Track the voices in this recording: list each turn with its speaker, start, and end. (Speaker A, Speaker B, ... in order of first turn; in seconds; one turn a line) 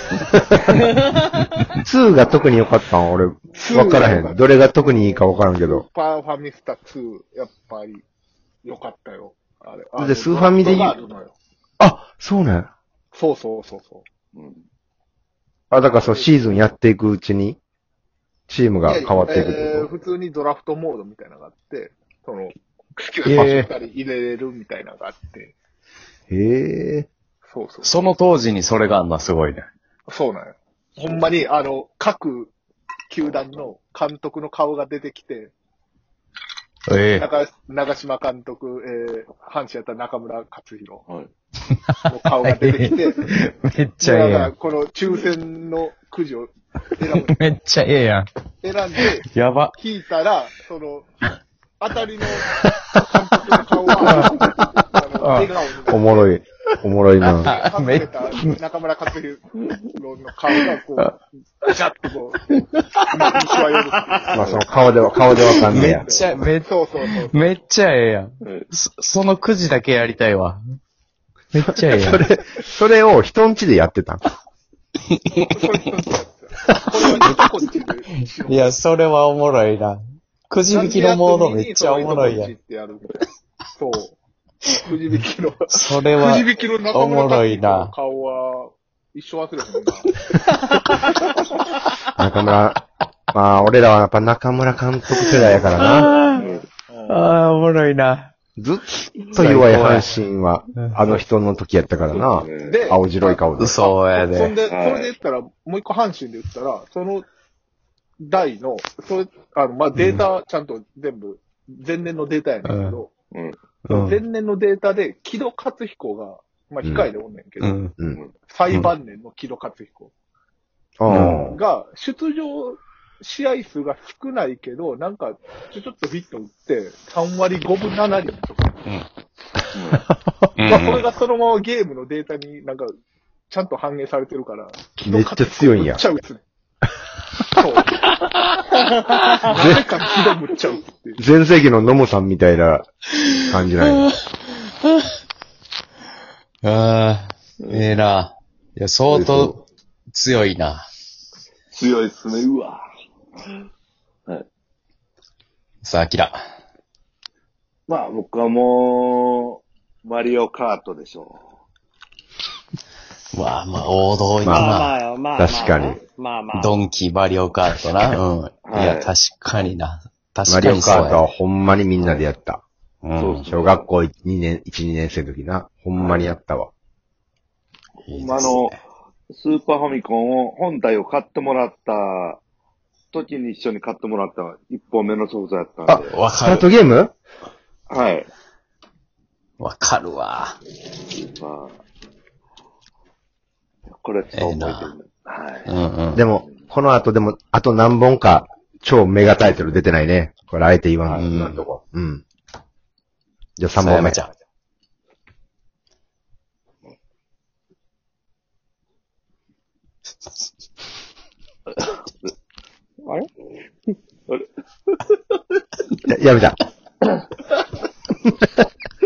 Speaker A: 1.8-5.9
Speaker B: 3.5-8.1
Speaker B: 8.6-11.3
Speaker A: 10.0-11.0
Speaker A: 11.8-12.7
Speaker B: 13.1-14.1
Speaker C: 14.3-14.6
Speaker A: 15.7-17.6
Speaker B: 15.8-16.6
Speaker A: 18.5-19.9
Speaker B: 18.8-25.6
Speaker D: 23.2-23.7
Speaker A: 26.3-27.1
Speaker B: 27.4-28.0
Speaker D: 27.8-29.7
Speaker B: 30.1-32.5
Speaker B: 33.1-35.5
Speaker D: 36.9-37.2
Speaker B: 37.1-41.1
Speaker D: 41.7-44.5
Speaker B: 42.1-43.2
Speaker B: 44.0-47.4
Speaker D: 47.2-48.3
Speaker B: 48.6-51.1
Speaker D: 49.0-49.8
Speaker B: 51.8-56.4
Speaker D: 52.5-53.0
Speaker D: 54.0-54.5
Speaker D: 55.2-55.5
Speaker A: 55.9-57.6
Speaker B: 57.3-62.4
Speaker D: 57.4-58.6
Speaker D: 60.6-61.1
Speaker B: 63.1-67.5
Speaker A: 64.3-66.1
Speaker D: 65.4-66.7
Speaker D: 67.3-70.6
Speaker D: 71.5-72.2
Speaker A: 71.9-74.2
Speaker D: 75.1-75.5
Speaker B: 75.3-78.8
Speaker D: 76.7-82.5
Speaker B: 80.7-84.2
Speaker B: 84.7-90.1
Speaker D: 85.7-87.9
Speaker A: 92.2-92.8
Speaker A: 93.3-96.1
Speaker D: 95.1-96.4
Speaker B: 96.2-97.4
Speaker C: 96.4-96.6
Speaker D: 97.1-98.3
Speaker A: 98.6-103.8
Speaker D: 99.3-100.1
Speaker C: 102.1-102.9
Speaker B: 102.6-107.2
Speaker D: 103.6-104.5
Speaker C: 104.6-105.1
Speaker B: 108.2-113.1
Speaker D: 110.0-110.2
Speaker D: 112.6-113.0
Speaker C: 113.3-113.6
Speaker D: 113.8-114.2
Speaker B: 113.9-117.8
Speaker D: 117.6-118.0
Speaker B: 118.5-120.1
Speaker A: 121.0-121.6
Speaker D: 121.1-121.4
Speaker B: 121.5-128.8
Speaker C: 129.7-130.0
Speaker D: 130.6-131.1
Speaker B: 130.7-132.9
Speaker B: 133.5-136.4
Speaker A: 135.0-136.0
Speaker B: 137.6-138.0
Speaker B: 139.4-141.2
Speaker A: 139.5-139.8
Speaker A: 141.2-142.9
Speaker A: 143.4-144.1
Speaker D: 143.8-144.1
Speaker D: 146.6-150.8
Speaker A: 149.1-149.6
Speaker C: 151.7-152.8
Speaker D: 155.8-156.4
Speaker C: 157.9-161.5
Speaker D: 163.3-165.0
Speaker A: 164.4-164.7
Speaker E: 164.5-166.7
Speaker A: 165.4-166.0
Speaker D: 166.5-171.2
Speaker C: 168.6-169.1
Speaker A: 170.5-172.6
Speaker D: 173.0-173.4
Speaker C: 173.2-173.9
Speaker A: 173.5-176.7
Speaker C: 175.9-176.3
Speaker D: 178.1-178.8
Speaker C: 178.1-182.4
Speaker C: 183.1-186.1
Speaker A: 185.9-187.1
Speaker D: 186.1-186.7
Speaker C: 187.9-188.3
Speaker D: 189.6-190.6
Speaker C: 191.1-191.8
Speaker C: 193.9-195.8
Speaker D: 194.3-194.9
Speaker D: 195.6-196.2
Speaker A: 196.1-202.2
Speaker C: 196.4-196.7
Speaker D: 201.1-201.6
Speaker A: 203.6-204.2
Speaker D: 203.8-204.3
Speaker C: 214.3-215.2
Speaker A: 216.1-216.6